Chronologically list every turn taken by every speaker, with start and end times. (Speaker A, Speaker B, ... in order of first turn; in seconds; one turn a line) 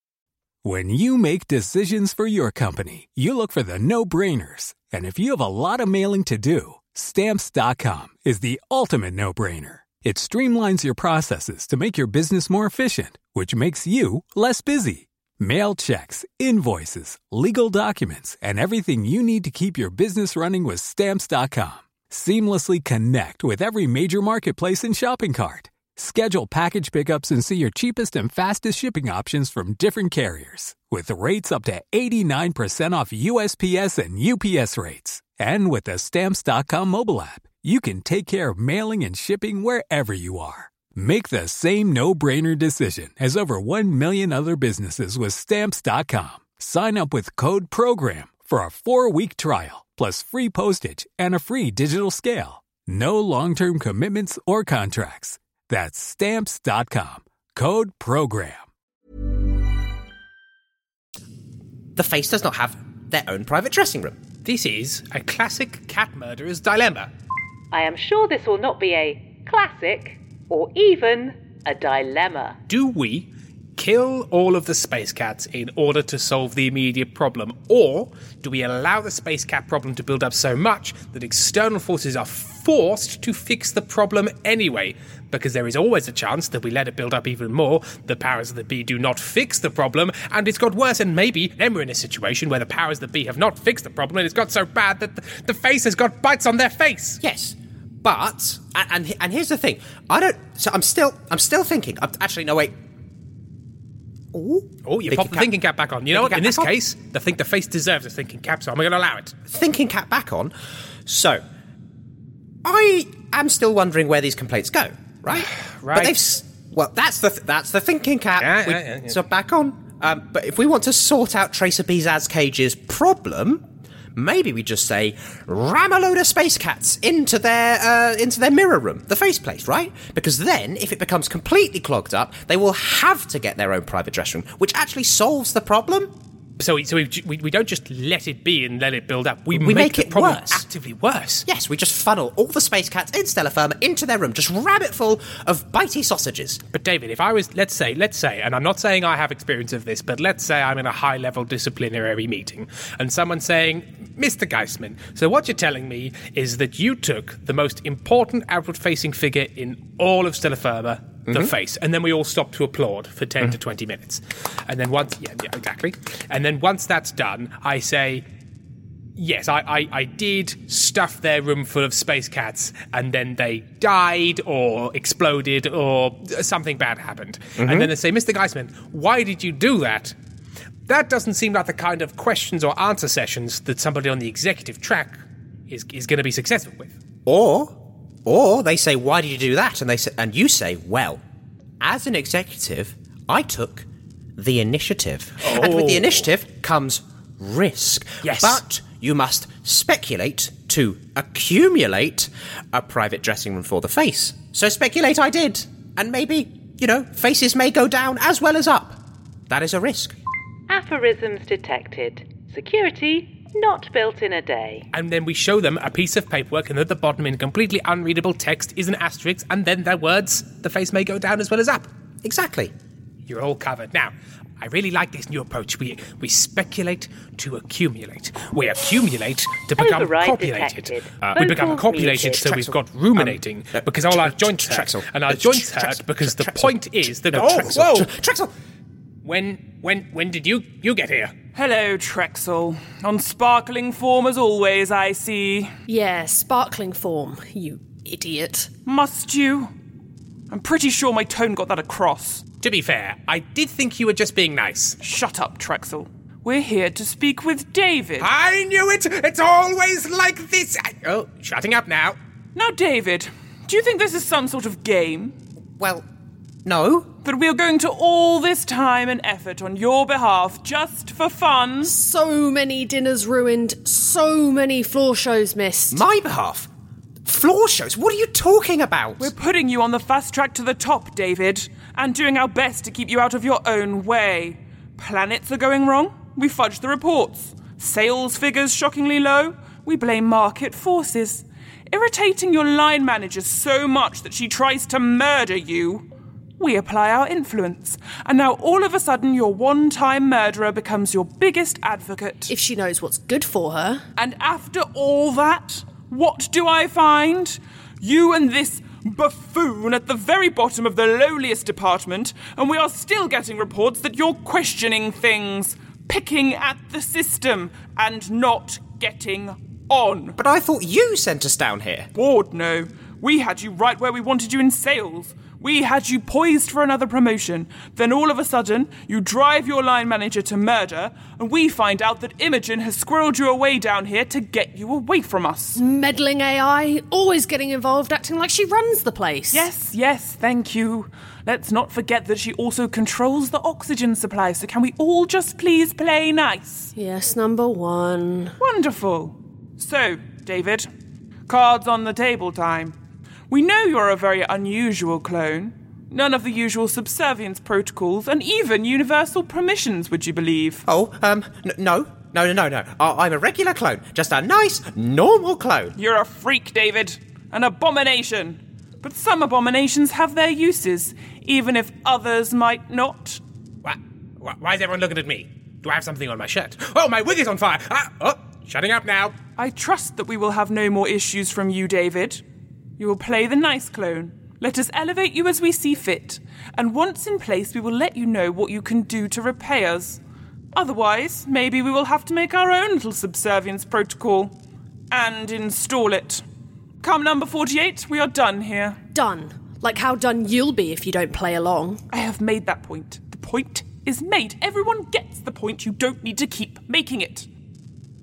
Speaker A: 0.6-58.6
Speaker B: 62.0-64.2
Speaker C: 64.5-67.1
Speaker D: 67.7-72.6
Speaker C: 72.7-97.2
Speaker B: 97.2-102.8
Speaker B: 104.3-105.5
Speaker C: 104.8-109.4
Speaker B: 106.1-106.7
Speaker B: 109.5-110.5
Speaker B: 111.1-111.4
Speaker B: 112.6-123.6
Speaker C: 115.3-116.3
Speaker C: 118.4-119.2
Speaker B: 124.2-136.1
Speaker C: 136.6-141.4
Speaker B: 139.5-140.6
Speaker B: 141.4-146.6
Speaker C: 146.7-168.2
Speaker B: 161.3-161.5
Speaker C: 169.2-180.1
Speaker B: 177.6-177.9
Speaker C: 180.9-187.0
Speaker B: 187.3-191.2
Speaker B: 191.8-193.9
Speaker B: 194.4-210.2
Speaker C: 195.4-196.2
Speaker C: 198.2-198.6
Speaker D: 210.7-214.9
Speaker C: 214.9-221.9
Speaker B: 222.2-222.7
Speaker C: 223.3-238.1
Speaker D: 229.8-232.5
Speaker B: 232.3-238.5
Speaker C: 239.2-241.3
Speaker E: 241.6-245.7
Speaker F: 245.9-248.7
Speaker E: 248.9-249.7
Speaker E: 250.5-252.4
Speaker C: 252.6-255.0
Speaker E: 255.0-258.3
Speaker C: 258.2-262.2
Speaker E: 262.6-265.3
Speaker B: 265.8-266.1
Speaker B: 266.6-267.1
Speaker E: 267.2-271.9
Speaker F: 271.8-276.0
Speaker B: 275.9-276.7
Speaker B: 277.3-279.3
Speaker E: 279.2-296.1
Speaker E: 296.6-302.5
Speaker F: 302.5-304.1
Speaker E: 304.1-320.4
Speaker B: 320.4-322.1
Speaker E: 322.1-335.8
Speaker F: 335.8-339.7
Speaker E: 339.5-346.9
Speaker F: 346.9-348.5
Speaker E: 348.6-350.9
Speaker E: 351.5-352.9
Speaker E: 353.5-360.9
Speaker B: 360.9-365.9
Speaker E: 365.9-373.4
Speaker C: 373.8-379.4
Speaker E: 379.6-382.4
Speaker E: 383.0-390.2
Speaker E: 390.7-394.6
Speaker E: 395.1-396.4
Speaker E: 397.0-399.0
Speaker F: 399.1-402.0
Speaker E: 402.1-407.5